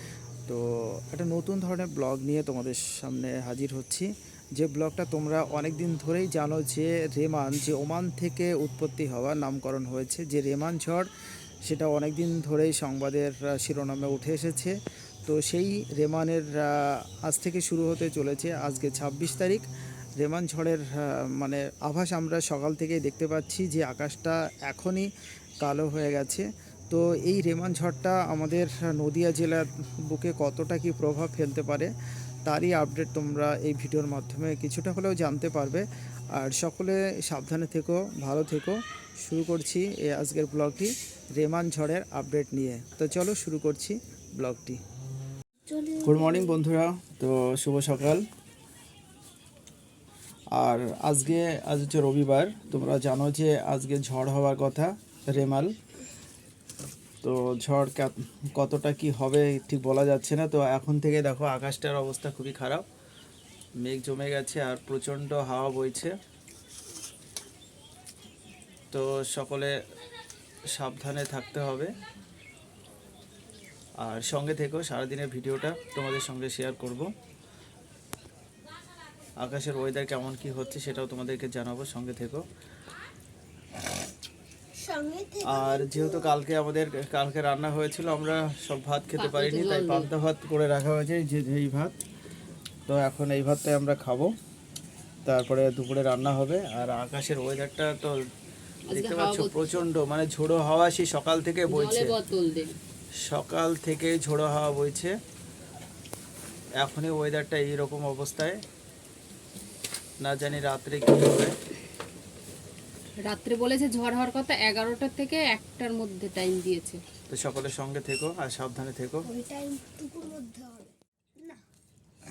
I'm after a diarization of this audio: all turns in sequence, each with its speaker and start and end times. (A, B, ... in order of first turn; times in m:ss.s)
0:00.5-0:11.1 A
0:11.6-0:14.8 A
0:15.3-0:19.7 A
0:20.2-0:25.1 A
0:25.6-0:31.9 A
0:32.5-0:35.8 A
0:36.4-0:44.8 A
0:45.7-0:46.6 B
0:46.0-0:48.2 A
0:50.6-0:55.7 A
0:57.2-1:02.8 A
1:03.8-1:06.1 A
1:08.9-1:09.7 A
1:10.7-1:11.9 A
1:14.0-1:17.1 A
1:19.4-1:22.4 A
1:24.8-1:26.3 B
1:25.4-1:32.0 A
1:29.2-1:30.1 C
1:32.9-1:34.3 A
1:35.2-1:38.2 A
1:38.9-1:39.8 C
1:38.9-1:42.2 A
1:41.7-1:42.8 C
1:43.2-1:45.1 A
1:46.8-1:48.6 A
1:50.2-1:51.6 A
1:53.3-1:57.0 C
1:57.3-1:59.3 A
1:59.2-2:01.6 B